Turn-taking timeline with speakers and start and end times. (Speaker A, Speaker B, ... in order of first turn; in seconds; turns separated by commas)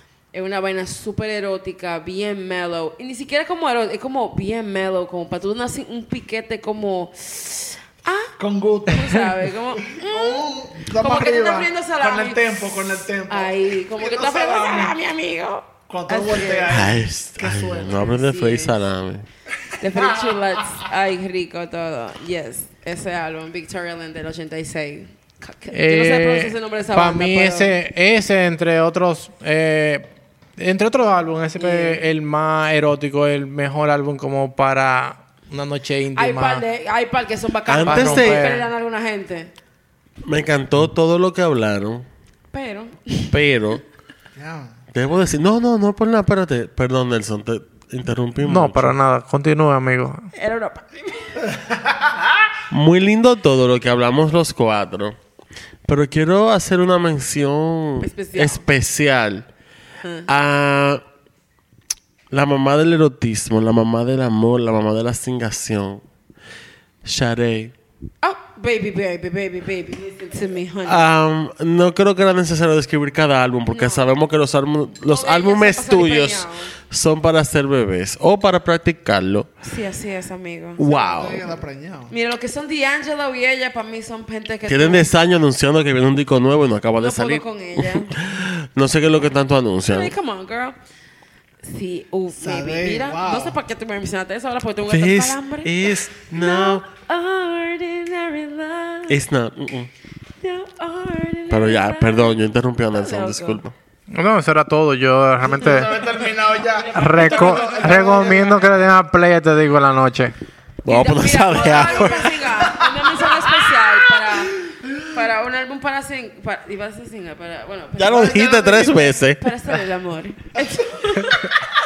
Speaker A: 0.3-8.3, Speaker B: 8.4-9.3, Speaker A: 8.9-12.4, Speaker B: 9.9-15.0, Speaker A: 13.3-16.7, Speaker B: 15.9-18.2, Speaker C: 16.7-19.3, Speaker A: 18.1-18.8, Speaker A: 19.8-27.8, Speaker B: 19.9-20.4, Speaker D: 25.7-36.6, Speaker A: 31.6-32.0, Speaker A: 36.1-39.5, Speaker C: 37.7-38.6, Speaker D: 37.9-38.7, Speaker C: 40.2-42.1, Speaker A: 42.5-43.4, Speaker C: 43.3-43.8, Speaker B: 44.4-44.8, Speaker C: 44.9-49.0, Speaker D: 48.4-50.3, Speaker A: 50.4-51.4, Speaker C: 52.7-55.2, Speaker C: 55.9-59.5, Speaker A: 58.0-58.7, Speaker A: 60.0-60.3, Speaker C: 60.3-61.0, Speaker C: 62.3-66.0, Speaker C: 67.0-67.7, Speaker A: 68.2-71.0, Speaker C: 70.8-79.5, Speaker A: 73.7-74.1, Speaker A: 75.1-76.7, Speaker A: 79.6-80.9, Speaker C: 80.8-81.5, Speaker B: 80.8-82.1, Speaker A: 82.1-85.1, Speaker C: 84.7-90.1, Speaker A: 87.0-88.2, Speaker A: 89.9-90.8, Speaker A: 91.6-99.2, Speaker B: 92.3-93.6, Speaker C: 94.9-96.8, Speaker C: 99.1-99.9, Speaker A: 100.4-103.6, Speaker C: 101.5-103.7, Speaker D: 104.1-106.0, Speaker B: 105.4-108.8, Speaker D: 106.9-110.3, Speaker A: 107.0-107.9, Speaker C: 110.8-112.6, Speaker A: 110.9-121.6, Speaker B: 112.6-113.9, Speaker B: 114.6-115.0, Speaker C: 118.0-119.4, Speaker B: 120.6-121.4